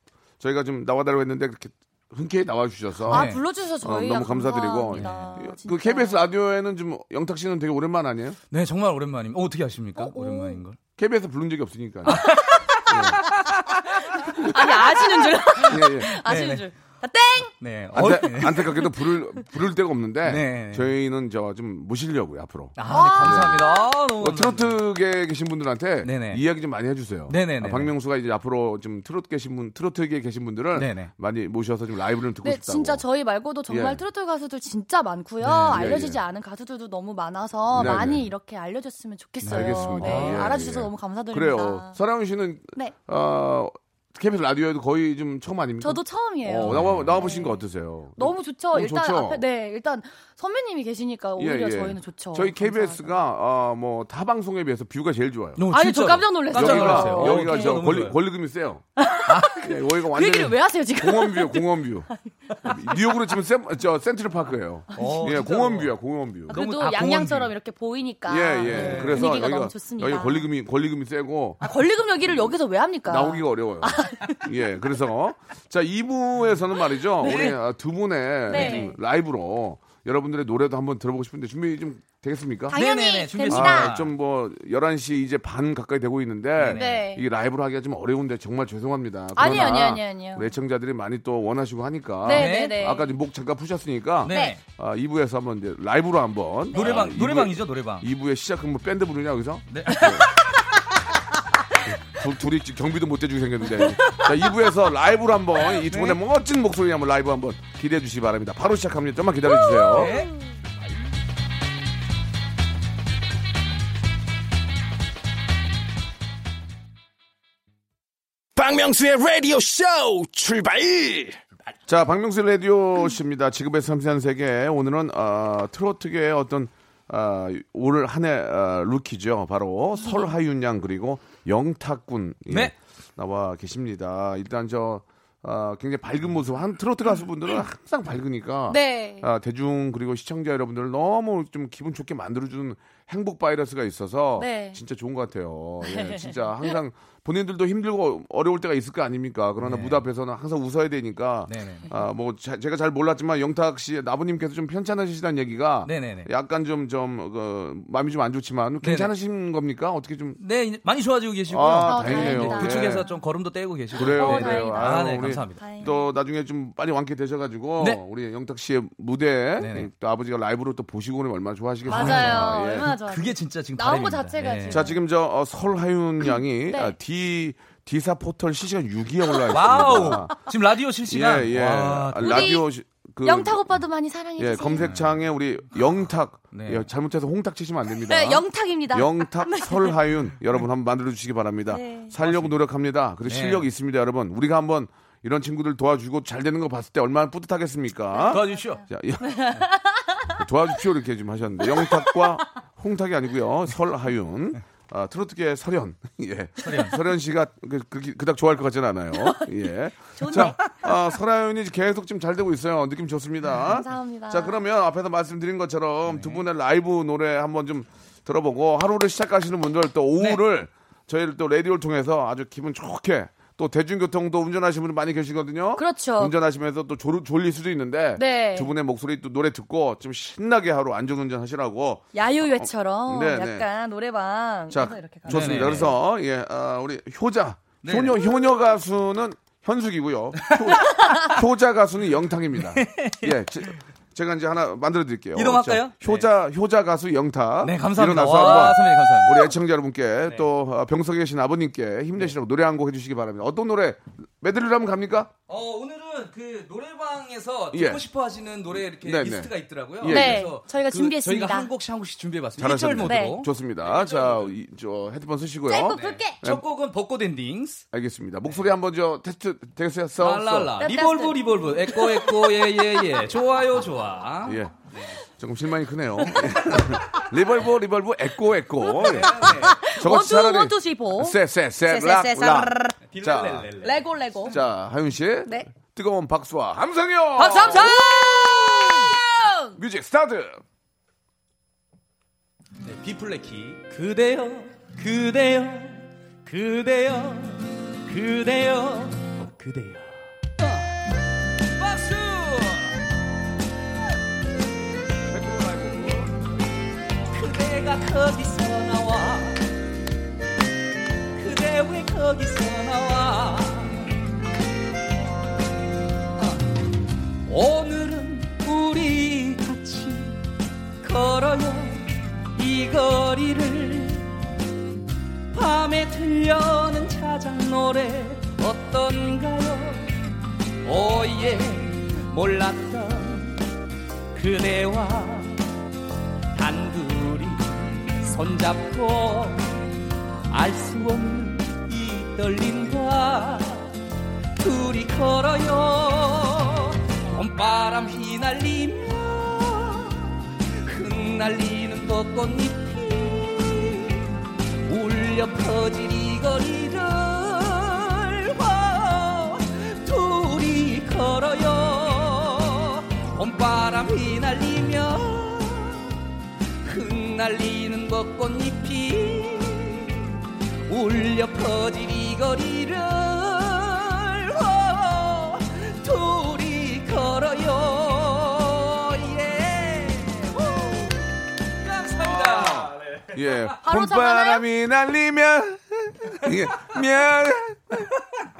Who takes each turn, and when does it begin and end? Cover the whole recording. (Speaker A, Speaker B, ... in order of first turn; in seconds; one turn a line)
Speaker A: 0.4-8.4
Speaker B: 3.1-3.4
Speaker C: 3.1-6.2
Speaker B: 4.9-5.3
Speaker B: 8.5-10.8
Speaker C: 10.0-10.6
Speaker A: 11.0-12.3
Speaker C: 12.1-13.3
Speaker B: 12.1-13.8
Speaker A: 12.8-13.2
Speaker C: 13.9-17.5
Speaker A: 15.7-16.1
Speaker B: 16.1-16.7
Speaker B: 17.6-18.9
Speaker A: 17.9-33.0
Speaker B: 20.2-20.9
Speaker B: 22.8-24.8
Speaker C: 22.9-23.8
Speaker B: 26.0-26.4
Speaker B: 27.3-27.9
Speaker B: 30.7-31.1
Speaker C: 32.4-42.0
Speaker A: 33.7-34.0
Speaker B: 35.4-36.0
Speaker A: 35.7-36.2
Speaker A: 37.7-38.3
Speaker B: 37.8-38.0
Speaker B: 39.4-40.6
Speaker A: 39.5-49.4
Speaker C: 45.8-47.6
Speaker B: 46.6-47.2
Speaker C: 48.2-53.2
Speaker A: 51.4-55.6
Speaker B: 55.6-58.2
Speaker C: 55.7-57.8
Speaker A: 56.5-58.8
Speaker C: 59.0-63.0
Speaker B: 59.2-59.7
Speaker A: 59.5-62.1
Speaker A: 62.6-66.6
Speaker C: 64.9-65.3
Speaker B: 65.0-65.9
Speaker B: 66.5-67.5
Speaker C: 66.5-70.5
Speaker A: 68.3-71.6
Speaker B: 68.6-69.3
Speaker C: 71.6-74.4
Speaker A: 73.1-82.8
Speaker C: 77.2-77.5
Speaker B: 77.2-77.5
Speaker C: 78.5-78.9
Speaker B: 78.5-78.9
Speaker C: 82.7-83.9
Speaker B: 82.7-84.1
Speaker A: 83.5-100.3
Speaker B: 86.6-86.9
Speaker C: 86.7-87.2
Speaker C: 89.3-90.5
Speaker C: 92.2-93.1
Speaker B: 92.3-92.9
Speaker B: 94.2-94.6
Speaker C: 94.2-94.6
Speaker C: 96.7-97.1
Speaker B: 96.7-98.1
Speaker B: 99.7-100.3
Speaker A: 101.9-110.2
Speaker C: 104.0-104.2
Speaker B: 105.8-106.2
Speaker C: 109.6-110.2
Speaker B: 109.9-110.3
Speaker D: 118.6-121.4
Speaker A: 121.9-160.4
Speaker B: 132.5-132.7
Speaker C: 138.7-139.3
Speaker C: 144.4-144.8
Speaker C: 145.8-146.7
Speaker B: 149.6-150.0
Speaker B: 151.5-151.9
Speaker B: 155.8-156.3
Speaker B: 158.8-159.1
Speaker B: 160.4-165.6
Speaker A: 161.5-163.0
Speaker C: 161.8-163.2
Speaker A: 163.9-172.9
Speaker C: 164.0-166.1
Speaker B: 169.6-169.9
Speaker B: 171.8-174.8
Speaker C: 171.9-175.0
Speaker A: 174.7-180.3
Speaker C: 176.7-176.9
Speaker B: 179.5-182.6
Speaker A: 181.1-183.7
Speaker C: 182.2-182.6
Speaker C: 183.2-184.9
Speaker A: 184.4-199.5
Speaker B: 184.8-185.2
Speaker B: 186.5-186.8
Speaker C: 188.1-189.9
Speaker C: 191.7-192.1
Speaker B: 192.2-192.5
Speaker B: 193.2-193.7
Speaker B: 198.2-198.8
Speaker C: 199.2-200.3
Speaker A: 200.3-233.7
Speaker C: 201.7-202.2
Speaker B: 206.6-207.0
Speaker C: 210.2-210.7
Speaker B: 210.3-210.6
Speaker C: 213.6-214.6
Speaker B: 216.1-216.4
Speaker C: 225.8-226.3
Speaker C: 228.2-228.7
Speaker C: 232.1-235.8
Speaker A: 234.7-255.3
Speaker B: 235.3-235.9
Speaker B: 237.8-238.2
Speaker B: 240.4-240.7
Speaker C: 240.8-241.4
Speaker B: 242.7-243.3
Speaker B: 245.3-246.3
Speaker B: 247.6-249.5
Speaker B: 255.5-264.5
Speaker A: 257.7-258.0
Speaker A: 259.0-260.5
Speaker C: 260.1-261.7
Speaker A: 262.6-266.6
Speaker C: 263.0-263.4
Speaker C: 265.7-266.4
Speaker B: 265.9-267.8
Speaker A: 267.9-270.8
Speaker B: 270.2-275.2
Speaker C: 270.8-272.8
Speaker A: 274.4-274.7
Speaker A: 275.4-283.7
Speaker B: 276.7-277.0
Speaker C: 278.9-283.0
Speaker B: 278.9-279.8
Speaker B: 283.1-284.0
Speaker C: 283.8-284.6
Speaker A: 284.5-288.1
Speaker C: 287.4-289.8
Speaker B: 287.4-288.0
Speaker A: 289.8-290.6
Speaker B: 292.8-300.9
Speaker B: 301.7-303.0
Speaker A: 305.2-306.3
Speaker B: 307.3-309.6
Speaker B: 311.3-314.1
Speaker B: 317.4-320.4
Speaker B: 321.0-324.3
Speaker B: 325.5-330.2
Speaker B: 330.8-333.6
Speaker B: 334.3-335.6
Speaker B: 336.5-339.7
Speaker B: 340.5-343.9
Speaker B: 344.6-354.3
Speaker B: 354.8-366.2
Speaker B: 366.8-370.3
Speaker B: 370.9-383.7
Speaker A: 382.1-388.1
Speaker C: 383.8-384.6